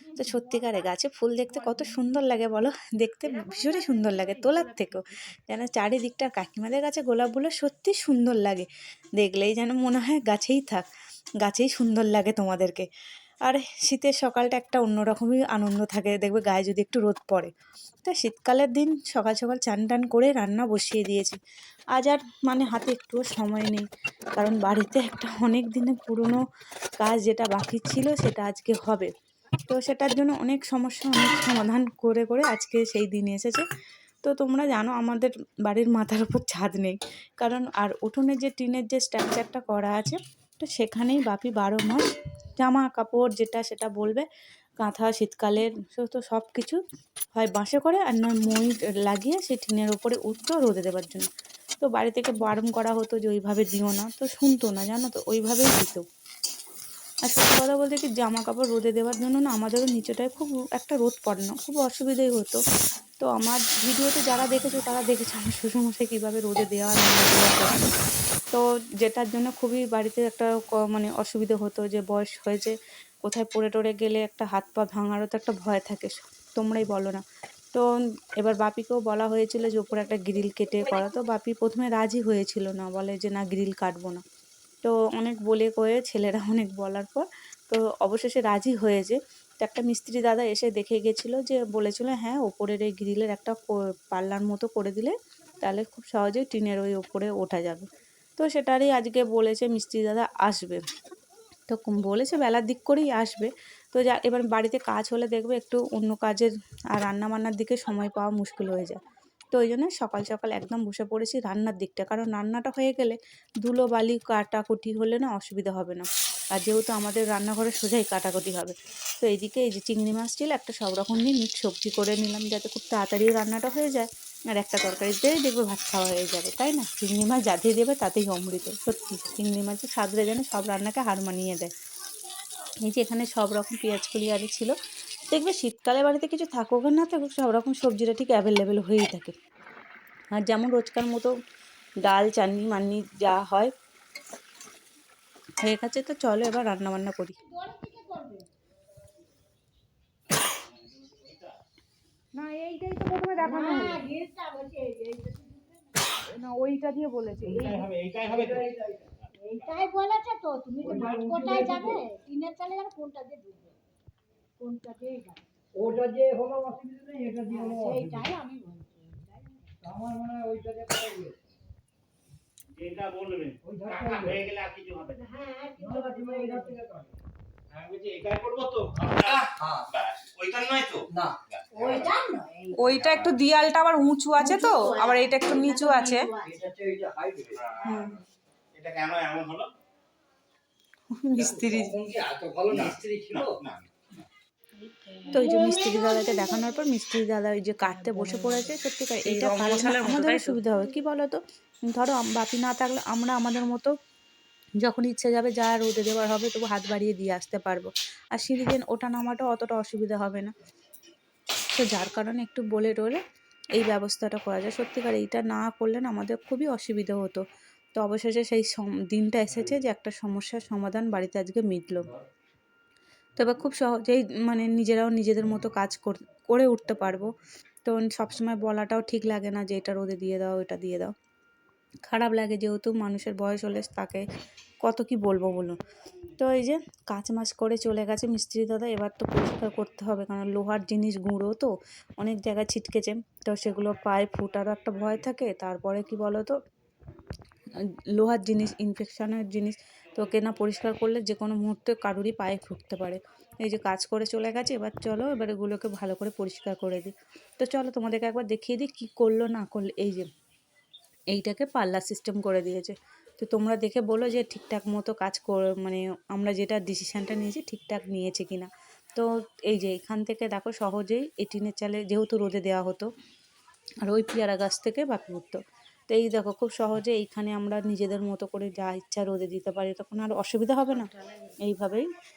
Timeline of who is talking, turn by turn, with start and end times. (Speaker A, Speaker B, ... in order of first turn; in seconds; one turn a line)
Speaker A: 0.1-10.8
Speaker A: 11.4-12.8
Speaker A: 13.4-17.5
Speaker A: 18.0-21.4
Speaker A: 21.9-23.8
Speaker A: 24.4-26.4
Speaker A: 27.0-29.1
Speaker A: 29.7-33.6
Speaker A: 34.2-42.0
Speaker A: 42.6-44.2
Speaker A: 44.8-46.8
Speaker A: 47.3-51.3
Speaker A: 51.8-56.0
Speaker A: 57.3-62.6
Speaker A: 63.2-67.9
Speaker A: 68.5-77.2
Speaker A: 78.4-84.2
Speaker A: 84.8-97.8
Speaker A: 98.4-100.8
Speaker A: 101.7-109.0
Speaker A: 109.5-131.7
Speaker A: 132.8-134.7
Speaker A: 135.3-139.3
Speaker A: 140.4-141.3
Speaker A: 142.0-143.7
Speaker A: 145.6-147.3
Speaker B: 147.4-148.5
Speaker C: 150.9-151.5
Speaker D: 152.3-154.0
Speaker B: 153.3-156.2
Speaker D: 156.3-157.8
Speaker E: 157.4-159.1
Speaker C: 157.6-158.7
Speaker B: 159.4-163.8
Speaker E: 160.8-162.0
Speaker B: 164.6-165.4
Speaker E: 165.7-168.3
Speaker B: 167.5-169.8
Speaker E: 169.8-171.3
Speaker C: 172.7-175.2
Speaker E: 173.6-174.4
Speaker B: 175.1-176.8
Speaker E: 175.8-177.1
Speaker C: 177.7-182.1
Speaker E: 179.6-179.9
Speaker E: 181.1-181.4
Speaker B: 181.7-183.0
Speaker D: 182.7-186.3
Speaker C: 182.9-183.4
Speaker B: 184.3-186.6
Speaker E: 186.4-187.6
Speaker C: 187.6-188.1
Speaker A: 187.8-188.2
Speaker C: 188.7-189.7
Speaker A: 191.2-191.9
Speaker E: 191.4-193.6
Speaker C: 192.7-194.2
Speaker B: 195.1-196.7
Speaker A: 195.3-203.9
Speaker D: 198.1-198.6
Speaker D: 199.2-200.6
Speaker A: 204.8-210.5
Speaker A: 211.7-213.2
Speaker A: 213.8-217.4
Speaker A: 217.9-222.1
Speaker A: 223.4-227.3
Speaker A: 227.8-231.1
Speaker A: 232.1-234.2
Speaker A: 234.8-235.8
Speaker A: 236.4-246.5
Speaker A: 248.2-260.2
Speaker A: 261.3-273.1
Speaker A: 274.1-275.6
Speaker A: 276.1-282.1